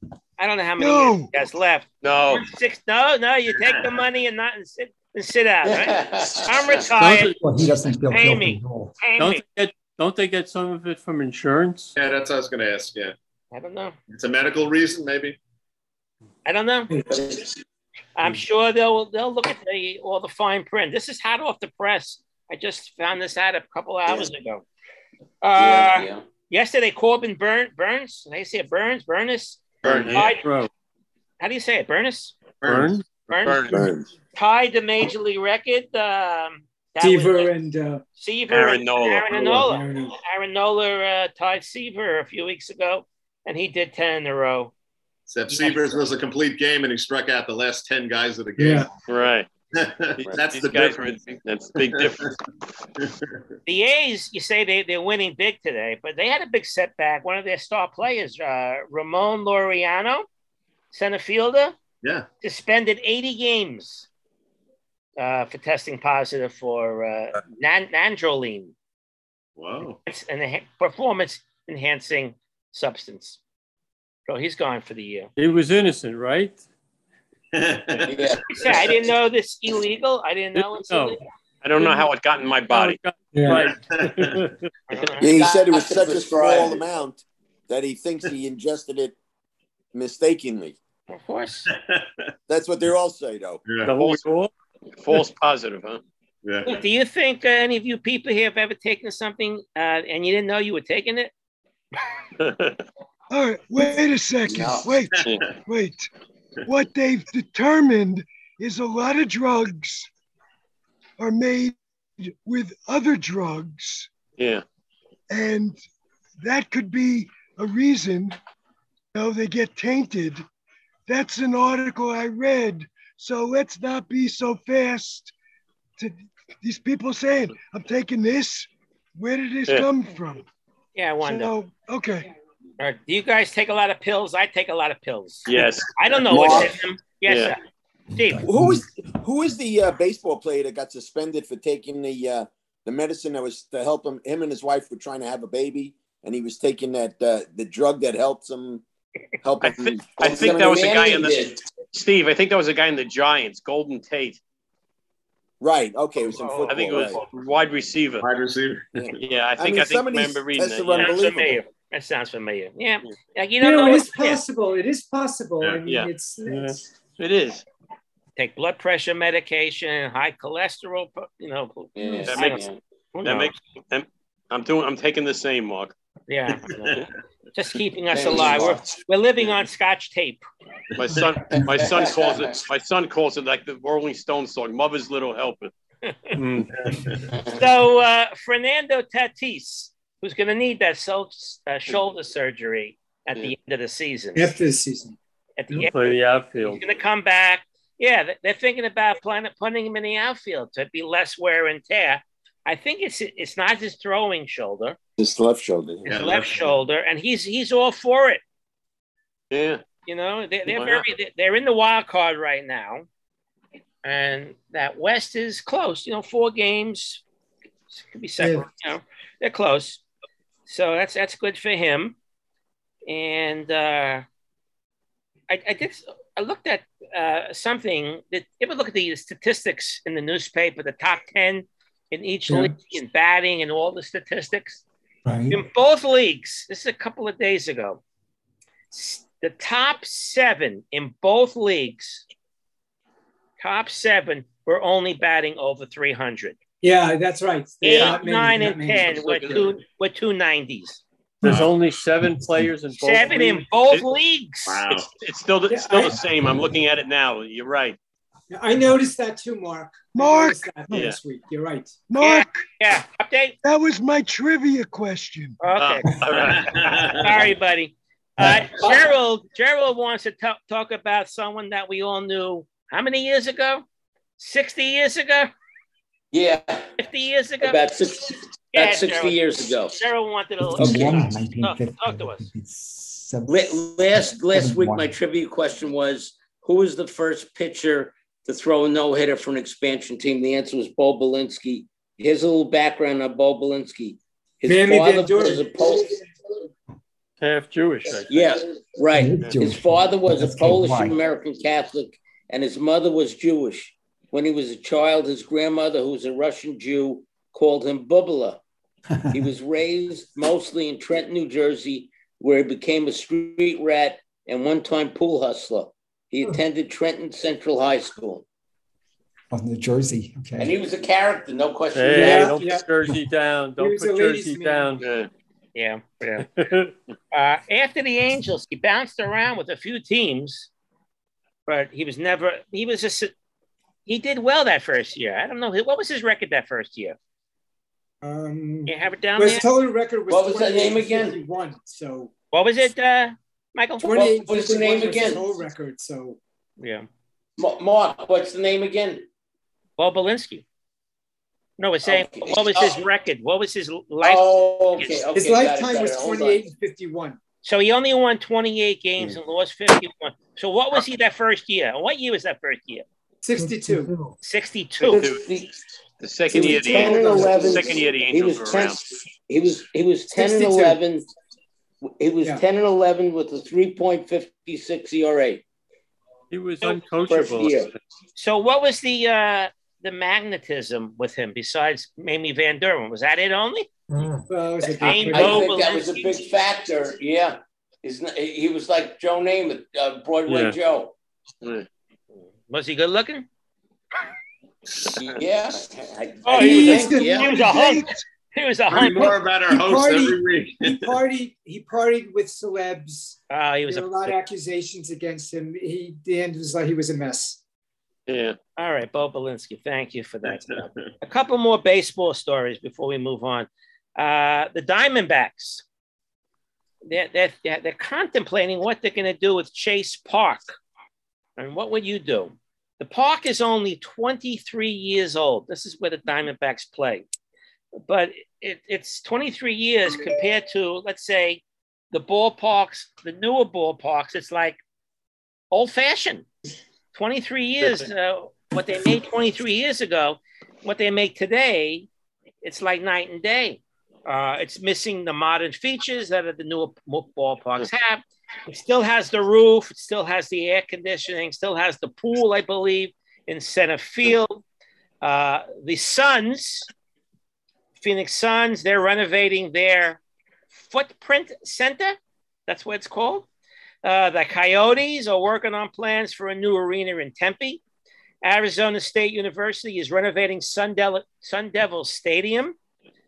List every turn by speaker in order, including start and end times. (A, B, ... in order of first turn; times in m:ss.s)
0:00.4-0:07.4 A
0:00.8-0:01.3 B
0:02.0-0:02.4 C
0:05.6-0:06.9 D
0:07.0-0:07.4 E
0:07.0-0:09.0 F
0:08.1-0:09.4 A
0:09.2-0:11.9 E
0:11.9-0:13.1 G
0:13.5-0:14.0 A
0:14.1-0:15.4 G
0:16.4-0:17.0 A
0:17.1-0:17.5 D
0:18.2-0:24.6 A
0:25.4-0:30.5 A
0:25.5-0:26.2 D
0:29.8-0:30.1 G
0:29.8-0:30.3 C
0:30.2-0:30.7 E
0:31.4-0:32.4 A
0:32.6-0:33.0 G
0:32.6-0:33.1 E
0:33.3-0:33.8 A
0:33.4-0:33.8 C
0:33.7-0:34.0 H
0:34.3-0:37.5 A
0:37.0-0:38.0 I
0:38.2-0:44.7 A
0:38.5-0:39.7 C
0:39.3-0:40.2 I
0:45.3-0:48.9 G
0:45.5-0:46.0 A
0:48.6-0:48.9 I
0:49.1-0:49.5 C
0:49.7-0:51.2 G
0:50.2-0:52.4 C
0:51.8-0:52.3 G
0:53.0-0:53.3 G
0:53.6-1:00.2 A
1:00.9-1:01.8 A
1:02.4-1:04.1 A
1:05.2-1:08.7 A
1:09.6-1:10.0 G
1:10.0-1:13.4 A
1:14.3-1:15.3 A
1:15.4-1:16.6 E
1:17.5-1:18.6 G
1:18.1-1:18.4 D
1:18.5-1:21.2 A
1:20.6-1:21.2 E
1:21.6-1:23.0 C
1:21.8-1:22.1 E
1:22.7-1:24.7 E
1:23.3-1:23.7 I
1:23.5-1:24.4 G
1:24.9-1:25.4 A
1:25.2-1:29.1 H
1:25.2-1:26.8 D
1:29.9-1:30.8 H
1:31.1-1:31.7 A
1:31.7-1:32.1 G
1:32.5-1:33.6 H
1:33.6-1:33.9 G
1:33.8-1:34.5 E
1:34.0-1:34.2 C
1:35.0-1:36.0 C
1:36.4-1:36.8 G
1:36.6-1:41.3 A
1:42.4-1:42.8 C
1:43.3-1:46.1 B
1:44.5-1:44.9 D
1:45.1-1:45.5 G
1:45.2-1:45.5 C
1:46.7-1:50.1 B
1:51.2-1:54.1 B
1:54.4-1:54.6 C
1:55.3-1:55.8 B
1:56.4-1:58.4 B
1:59.1-2:00.4 B
2:01.1-2:05.3 B
2:06.0-2:10.4 B
2:10.9-2:11.5 A
2:11.2-2:12.3 B
2:12.8-2:17.6 A
2:15.4-2:16.7 C
2:16.3-2:16.7 H
2:17.2-2:17.6 C
2:18.1-2:18.4 A
2:18.2-2:18.9 F
2:18.4-2:28.8 H
2:29.4-2:30.2 H
2:29.6-2:34.4 C
2:30.2-2:31.6 D
2:35.6-2:37.2 H
2:36.3-2:37.0 A
2:36.7-2:38.2 C
2:38.2-2:38.9 G
2:39.0-2:41.6 H
2:39.2-2:41.3 C
2:40.9-2:44.4 A
2:43.6-2:46.9 I
2:45.8-2:46.1 C
2:46.5-2:46.8 E
2:47.2-2:47.6 C
2:48.4-2:53.5 A
2:51.9-2:52.8 D
2:52.2-2:52.6 C
2:53.2-2:55.9 C
2:56.3-3:00.4 A
2:58.1-2:58.8 D
3:00.9-3:05.7 C
3:01.7-3:02.5 D
3:06.0-3:06.4 A
3:06.3-3:06.7 E
3:06.8-3:07.2 G
3:07.4-3:14.5 A
3:14.3-3:15.2 I
3:15.6-3:25.0 A
3:15.7-3:16.8 E
3:25.2-3:26.2 H
3:26.0-3:26.7 G
3:26.1-3:28.4 A
3:29.5-3:29.8 C
3:30.0-3:33.0 A
3:30.7-3:31.0 C
3:34.0-3:37.2 A
3:37.9-3:40.0 A
3:38.4-3:38.6 I
3:40.7-3:42.2 A
3:43.1-3:44.2 A
3:45.5-3:54.8 A
3:55.2-3:55.6 F
3:55.5-3:58.0 A
3:58.9-4:02.2 A
4:03.6-4:06.6 A
4:06.8-4:09.7 I
4:07.8-4:11.0 A
4:07.8-4:08.2 C
4:09.2-4:09.6 C
4:11.4-4:13.7 E
4:12.4-4:12.7 F
4:13.0-4:14.8 A
4:14.6-4:15.1 G
4:14.9-4:18.0 C
4:15.7-4:16.2 I
4:18.5-4:22.0 I
4:20.1-4:21.1 B
4:20.9-4:21.2 C
4:22.1-4:22.6 B
4:22.2-4:23.6 A
4:23.6-4:25.6 B
4:25.6-4:33.8 A
4:25.7-4:27.4 C
4:26.8-4:27.1 G
4:34.4-4:35.5 A
4:36.3-4:36.9 D
4:37.0-4:37.8 A
4:37.6-4:40.0 D
4:38.7-4:42.5 A
4:40.6-4:45.1 F
4:43.5-4:56.2 D
4:54.6-4:56.1 I
4:57.4-4:58.5 E
4:58.3-5:08.6 D
4:59.1-5:01.2 F
5:09.3-5:18.4 D
5:19.5-5:20.7 F
5:20.6-5:22.6 D
5:21.9-5:25.0 E
5:22.1-5:22.9 I
5:23.8-5:25.0 I
5:25.0-5:25.3 C
5:25.7-5:26.5 A
5:26.4-5:26.9 E
5:27.3-5:30.7 A
5:31.7-5:33.3 A
5:34.0-5:37.2 A
5:38.2-5:42.3 I
5:38.9-5:39.7 A
5:40.3-5:41.4 D
5:42.5-5:44.3 A
5:44.0-5:46.4 I
5:44.1-5:45.5 D
5:46.8-5:47.1 A
5:47.6-5:49.2 D
5:50.0-5:50.6 A
5:51.8-5:55.2 A
5:52.0-5:53.0 D
5:54.2-5:56.6 D
5:55.3-5:57.4 I
5:57.6-6:03.0 A
6:03.4-6:04.1 I
6:04.4-6:05.2 A
6:05.0-6:05.8 D
6:05.1-6:05.4 C
6:06.2-6:09.0 C
6:06.5-6:11.3 D
6:06.6-6:08.0 I
6:10.3-6:10.9 I
6:12.0-6:15.6 D
6:16.5-6:17.8 E
6:17.3-6:17.9 D
6:18.4-6:23.9 A
6:24.5-6:25.7 I
6:25.0-6:26.4 A
6:25.0-6:31.1 D
6:30.5-6:30.8 E
6:32.5-6:33.5 A
6:35.1-6:37.5 D
6:36.4-6:39.4 A
6:36.5-6:38.1 I
6:37.5-6:38.2 B
6:38.9-6:41.2 G
6:39.0-6:47.6 I
6:43.5-6:44.3 A
6:48.3-6:48.6 C
6:48.8-6:55.8 A
6:57.0-7:00.7 A
7:01.6-7:07.2 A
7:08.0-7:14.8 A
7:15.7-7:16.5 A
7:17.1-7:22.1 A
7:22.6-7:34.6 A
7:35.2-7:36.9 A
7:38.0-7:40.2 A
7:40.7-7:43.5 A
7:44.0-7:47.8 A
7:48.4-7:52.8 A